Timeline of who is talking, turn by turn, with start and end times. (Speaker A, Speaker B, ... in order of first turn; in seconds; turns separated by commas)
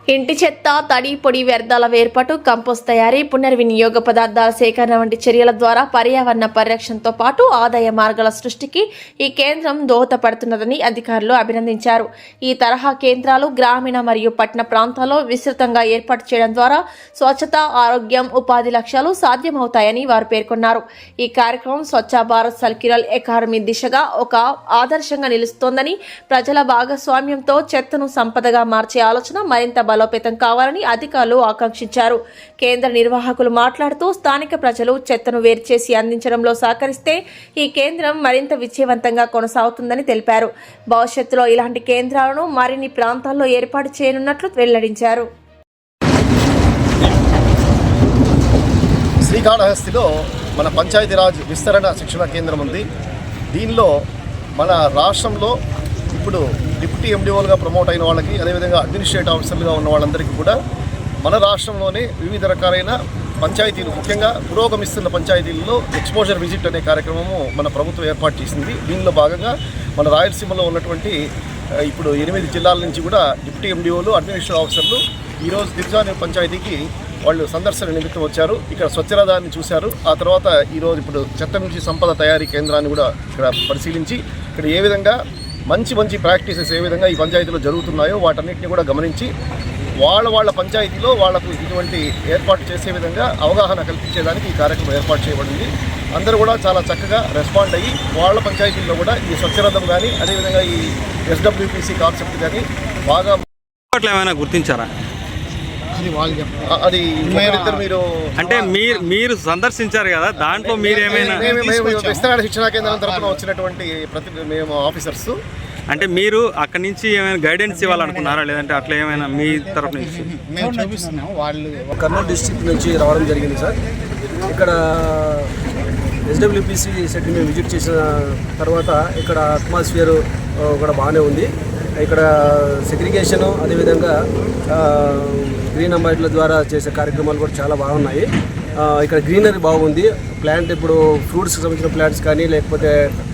Speaker A: 0.1-45.3, Speaker B: 49.2-52.9, Speaker B: 53.5-53.9, Speaker B: 54.5-55.5, Speaker B: 56.1-60.6, Speaker B: 61.2-71.2, Speaker B: 71.8-89.3, Speaker B: 90.0-103.4, Speaker C: 103.9-104.9, Speaker D: 106.0-106.7, Speaker B: 106.6-108.8, Speaker D: 107.3-107.8, Speaker C: 108.4-111.6, Speaker B: 110.5-115.4, Speaker D: 111.7-111.9, Speaker C: 115.9-120.4, Speaker D: 120.2-121.9, Speaker E: 122.0-123.8, Speaker E: 124.5-125.5, Speaker E: 126.3-134.2, Speaker E: 134.7-143.1